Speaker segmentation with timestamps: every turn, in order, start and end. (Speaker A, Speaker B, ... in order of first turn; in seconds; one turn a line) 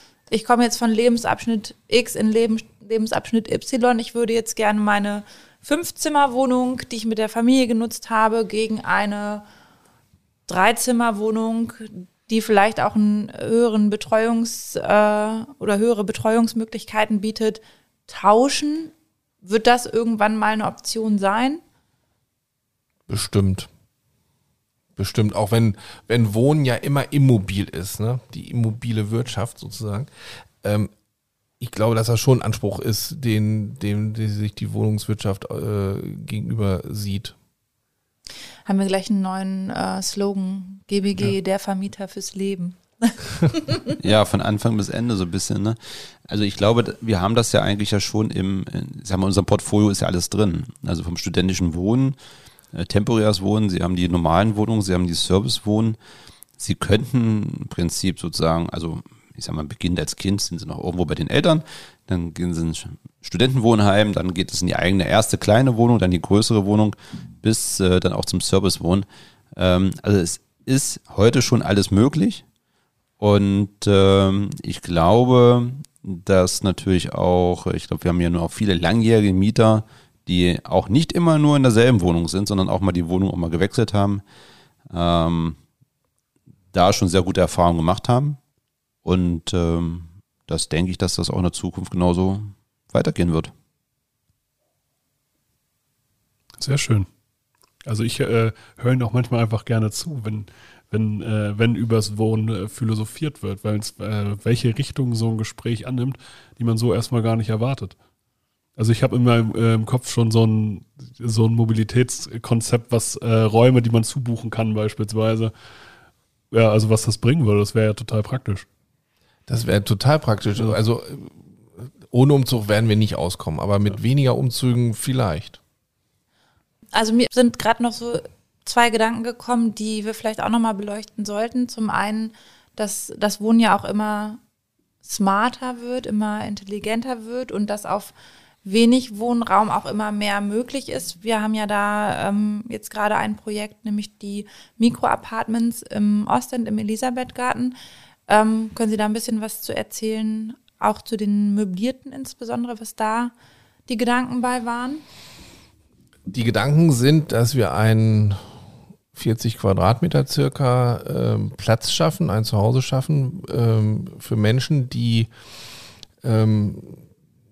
Speaker A: 0.3-9.4
Speaker A: 10.5-18.9
Speaker A: 19.4-21.6
Speaker B: 23.1-23.7
Speaker B: 25.0-30.1
Speaker B: 30.6-30.9
Speaker B: 31.6-37.4
Speaker A: 38.7-44.0
Speaker C: 44.0-52.2
Speaker C: 52.7-56.0
Speaker C: 56.6-72.4
Speaker C: 73.2-84.2
Speaker C: 84.9-85.6
Speaker C: 86.7-88.4
Speaker C: 89.0-93.5
Speaker D: 96.6-97.1
Speaker D: 97.8-108.0
Speaker D: 108.8-115.5
Speaker D: 116.5-118.7
Speaker B: 119.5-125.6
Speaker A: 126.9-134.4
Speaker A: 135.0-138.1
Speaker A: 138.6-147.8
Speaker A: 148.3-153.3
Speaker A: 153.9-155.1
Speaker B: 156.3-158.4
Speaker B: 159.1-165.3
Speaker B: 166.2-167.0